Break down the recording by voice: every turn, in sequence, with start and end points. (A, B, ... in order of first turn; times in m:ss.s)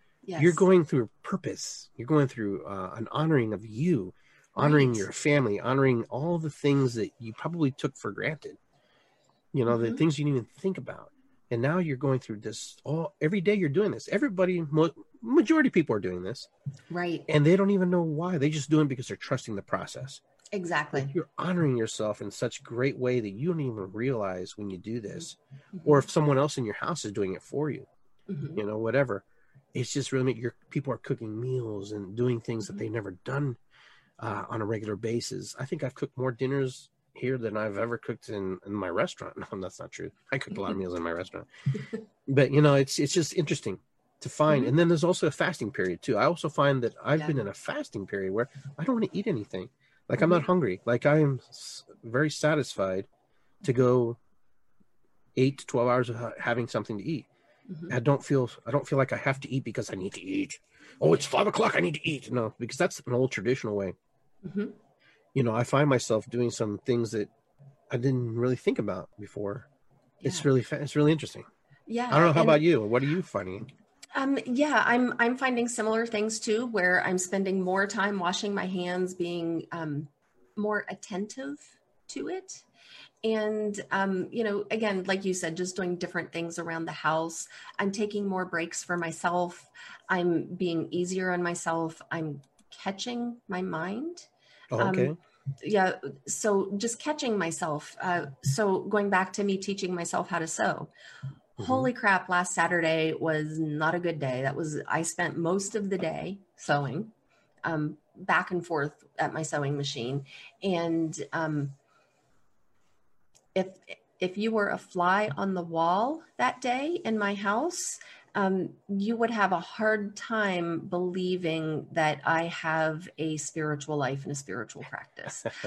0:00.2-0:00.6 A
0:00.4-0:08.6 B
0:04.6-0:05.1 A
0:09.5-0:16.5 B
0:09.7-0:10.0 A
0:16.9-0:17.3 A
0:17.3-0:20.2 B
0:20.5-0:21.1 A
0:20.9-0:27.9 B
0:25.2-0:26.1 A
0:28.3-0:28.6 A
0:28.6-0:33.6 B
0:34.2-0:41.5 B
0:42.3-0:53.1 B
0:53.6-0:54.2 B
0:55.4-0:57.3 B
0:57.7-0:57.9 A
0:57.9-1:03.9 B
1:04.4-1:04.7 A
1:05.3-1:07.3 B
1:07.9-1:09.7 B
1:10.2-1:11.5 B
1:10.2-1:10.5 A
1:11.9-1:12.6 A
1:12.1-1:13.7 B
1:14.1-1:22.6 A
1:23.2-1:40.9 A
1:34.7-1:35.2 B
1:41.6-1:41.9 B
1:41.6-1:47.1 A
1:47.6-1:51.7 A
1:53.6-2:05.5 A